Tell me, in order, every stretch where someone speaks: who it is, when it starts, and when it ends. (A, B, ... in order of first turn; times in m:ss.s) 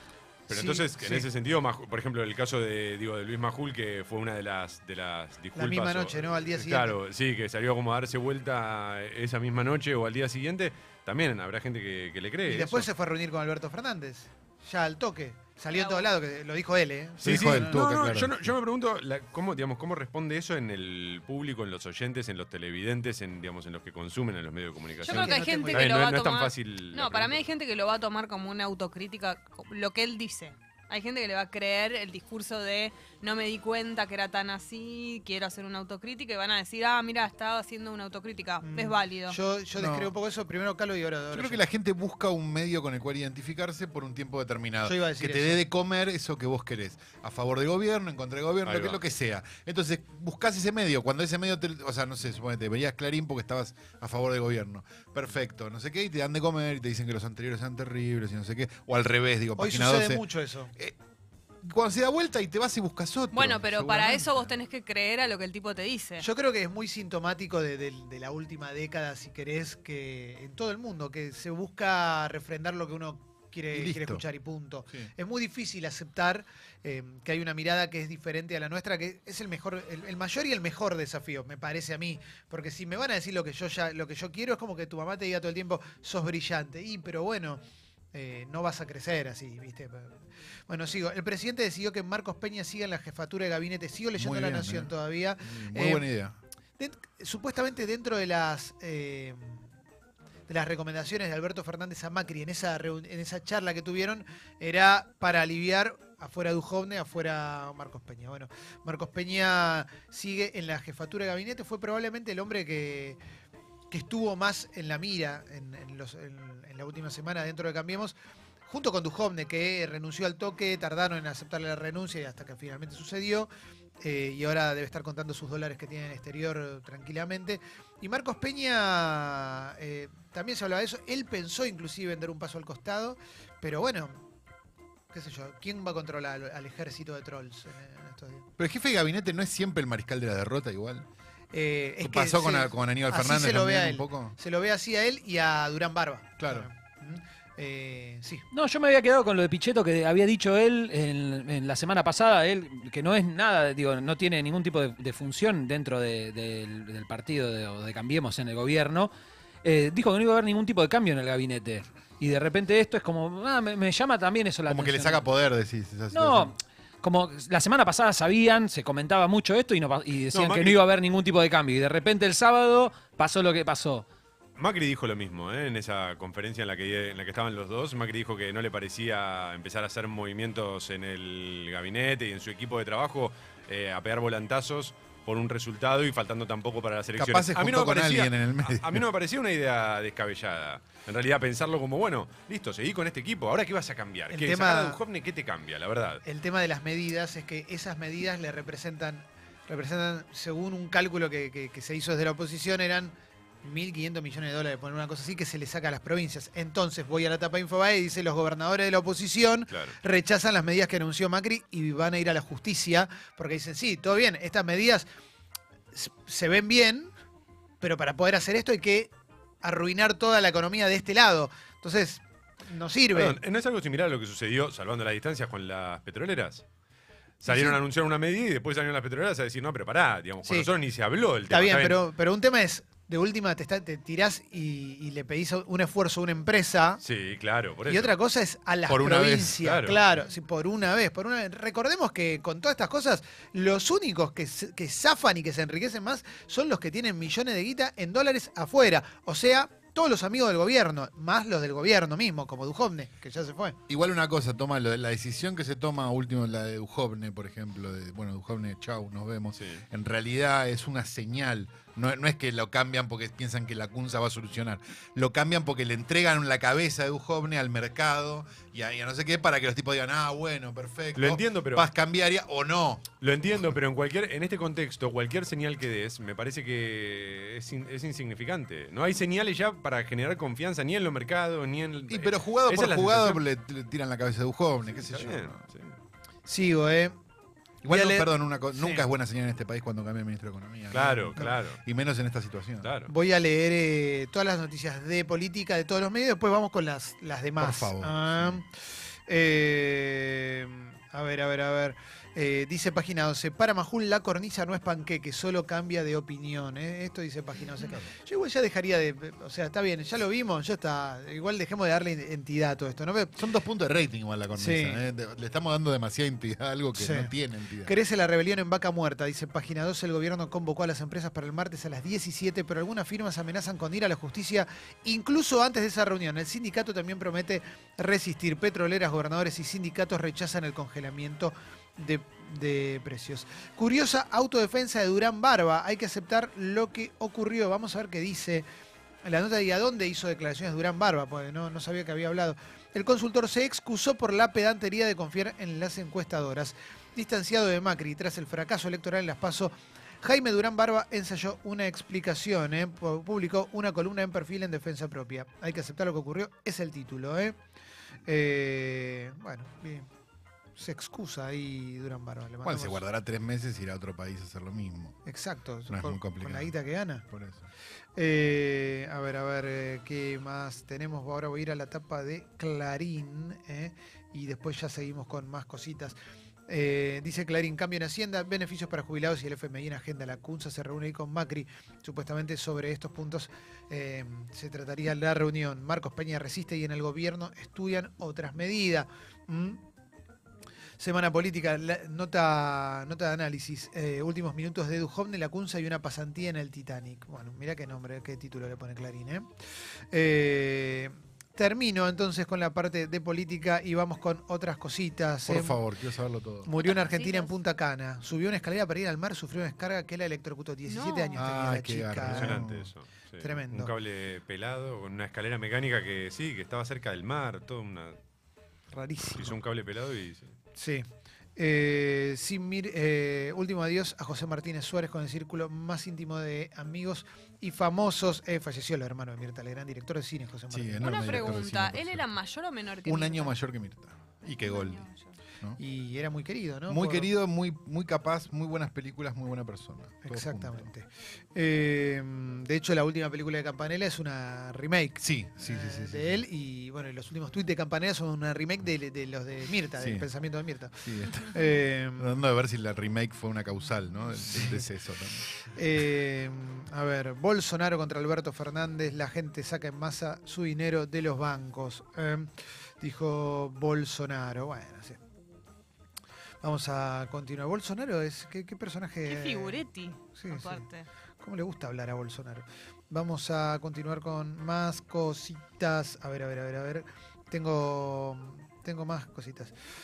0:00.5-0:12.9 A
0:00.5-0:01.3 B
0:05.5-0:07.0 B
0:12.5-0:17.9 B
0:15.7-0:16.1 C
0:17.2-0:18.4 D
0:17.2-0:27.4 A
0:25.0-0:39.4 C
0:25.0-0:26.0 B
0:38.6-0:41.6 B
0:39.7-0:40.1 D
0:41.3-1:00.2 D
0:44.8-0:45.6 B
0:48.6-0:49.0 A
0:59.6-1:00.7 B
1:01.6-1:04.5 D
1:03.3-1:06.3 C
1:06.2-1:27.6 B
1:13.7-1:14.2 D
1:28.1-1:36.1 B
1:34.2-1:36.4 D
1:36.8-1:39.6 B
1:40.5-1:53.2 B
1:53.9-1:58.1 B
1:58.7-2:14.2 B
2:15.1-2:18.5 B
2:18.6-2:21.0 D
2:21.5-2:28.4 B
2:22.0-2:24.3 D
2:26.4-2:26.7 D
2:28.5-2:39.1 E
2:39.6-2:45.2 E
2:44.7-2:46.6 D
2:46.1-2:54.0 E
2:50.3-2:50.8 A
2:54.6-3:16.2 A
3:07.2-3:09.0 D
3:14.3-3:15.0 B
3:16.2-3:35.0 B
3:29.7-3:30.0 A
3:35.9-3:37.1 B
3:37.8-3:43.4 B
3:43.1-3:46.6 A
3:47.4-3:52.0 A
3:47.5-3:47.8 B
3:51.5-3:57.0 B
3:57.0-3:58.1 A
3:57.9-4:13.8 B
3:58.9-3:59.6 D
3:59.6-4:00.0 A
4:13.9-4:33.1 D
4:19.5-4:19.8 A
4:31.2-4:31.9 A
4:33.2-4:43.4 A
4:42.1-4:45.6 D
4:45.0-4:45.9 A
4:46.4-4:47.2 B
4:47.8-4:52.9 D
4:47.9-4:49.0 B
4:50.9-4:51.8 A
4:52.8-4:53.1 A
4:53.1-5:13.3 B
4:57.6-4:58.6 D
5:07.8-5:08.1 D
5:13.4-5:17.9 D
5:14.5-5:15.0 B
5:17.0-5:17.3 B
5:17.8-5:38.6 B
5:39.2-5:57.6 B
5:58.2-6:00.1 B
6:00.8-6:03.0 B
6:02.6-6:05.2 D
6:05.2-6:07.2 B
6:05.9-6:06.7 D
6:07.3-6:07.6 D
6:08.2-6:16.2 B
6:16.7-6:29.8 B
6:31.0-6:39.5 B
6:40.1-6:45.8 B
6:45.4-6:46.7 D
6:46.6-6:52.6 B
6:46.8-6:47.6 C
6:50.8-6:51.4 C
6:51.4-6:52.9 D
6:52.2-6:58.2 A
6:53.4-6:53.9 B
6:58.9-6:59.6 B
6:59.3-7:00.5 A
7:00.8-7:11.6 B
7:10.7-7:12.2 D
7:11.0-7:13.5 C
7:13.0-7:15.0 D
7:14.6-7:15.4 C
7:15.8-7:17.3 B
7:16.9-7:20.9 D
7:20.2-7:32.3 B
7:25.2-7:26.4 D
7:30.0-7:30.3 D
7:31.0-7:35.5 D
7:34.4-7:34.8 B
7:35.6-7:45.2 B
7:46.6-7:50.8 B
7:49.2-7:51.1 C
7:51.4-7:59.7 B